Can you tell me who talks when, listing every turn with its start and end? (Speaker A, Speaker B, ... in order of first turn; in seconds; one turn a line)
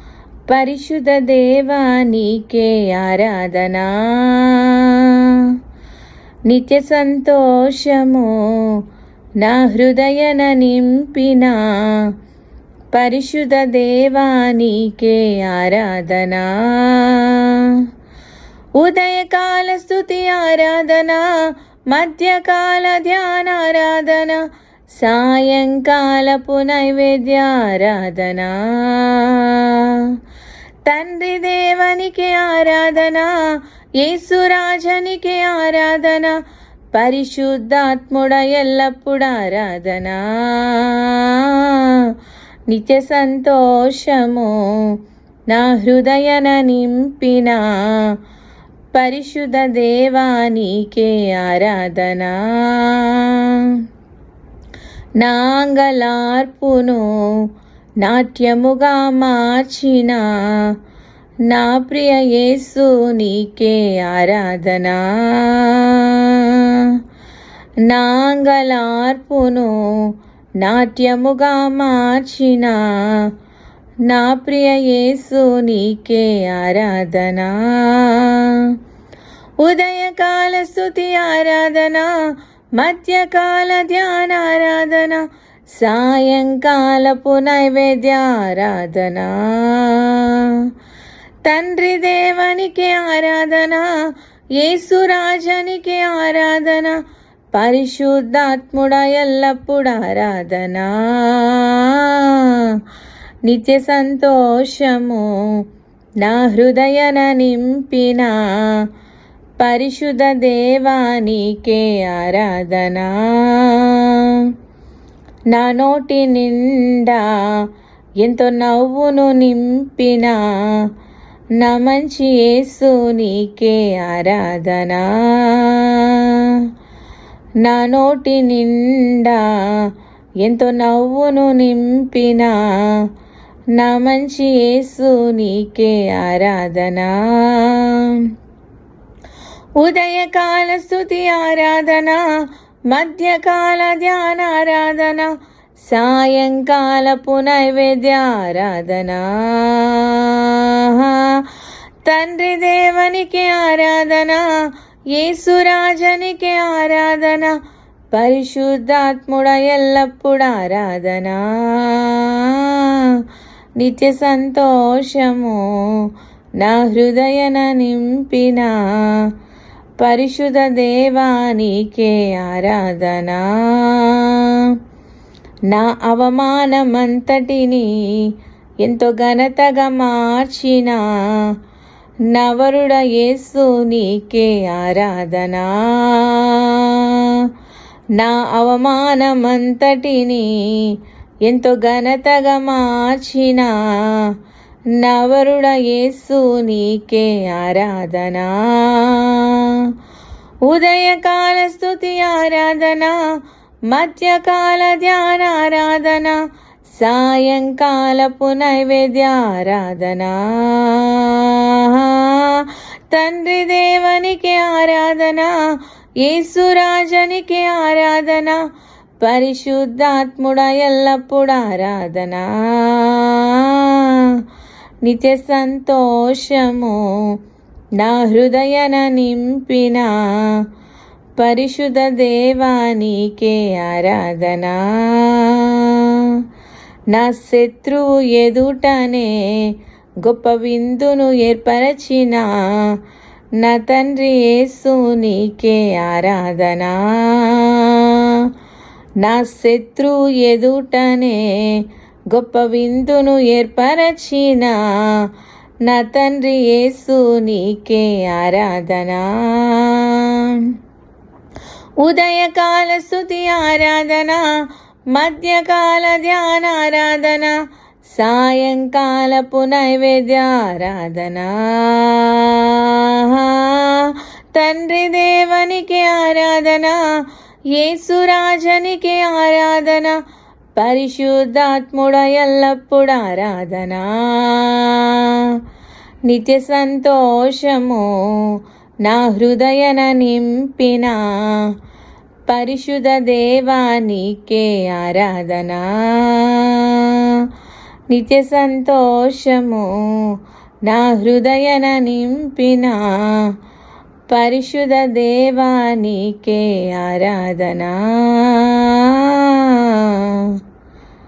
Speaker A: 0.5-5.5
Speaker A: 6.5-8.8
Speaker A: 9.4-12.1
Speaker A: 12.9-17.9
Speaker A: 18.8-30.2
Speaker A: 30.9-36.4
Speaker A: 36.9-42.1
Speaker A: 42.7-45.0
Speaker A: 45.5-48.2
Speaker A: 48.9-53.8
Speaker A: 55.2-60.8
Speaker A: 61.5-67.0
Speaker A: 67.8-73.3
Speaker A: 74.0-78.8
Speaker A: 79.6-82.2
Speaker A: 82.8-90.7
Speaker A: 91.4-93.9
Speaker A: 94.6-97.0
Speaker A: 97.5-102.8
Speaker A: 103.5-105.6
Speaker A: 106.2-108.9
Speaker A: 109.6-114.5
Speaker A: 115.5-117.7
Speaker A: 118.2-120.9
Speaker A: 121.6-126.7
Speaker A: 127.6-129.9
Speaker A: 130.4-133.1
Speaker A: 133.8-138.3
Speaker A: 139.8-151.5
Speaker A: 152.1-157.6
Speaker A: 158.1-163.2
Speaker A: 163.8-169.3
Speaker A: 170.0-174.8
Speaker A: 175.7-178.3
Speaker A: 178.8-181.5
Speaker A: 182.3-187.5
Speaker A: 188.2-194.3
Speaker A: 195.0-199.9
Speaker A: 200.7-203.4
Speaker A: 203.9-215.6
Speaker A: 216.2-218.6
Speaker A: 219.2-224.4
Speaker A: 225.0-227.3
Speaker A: 228.0-230.6
Speaker A: 231.4-236.4
Speaker A: 237.1-243.0
Speaker A: 243.6-248.5
Speaker A: 249.2-255.3
Speaker A: 255.8-260.7
Speaker A: 262.0-264.5
Speaker A: 265.1-280.2
Speaker A: 280.8-285.6
Speaker A: 286.3-291.7
Speaker A: 292.5-297.5
Speaker A: 298.1-303.5
Speaker A: 304.3-310.6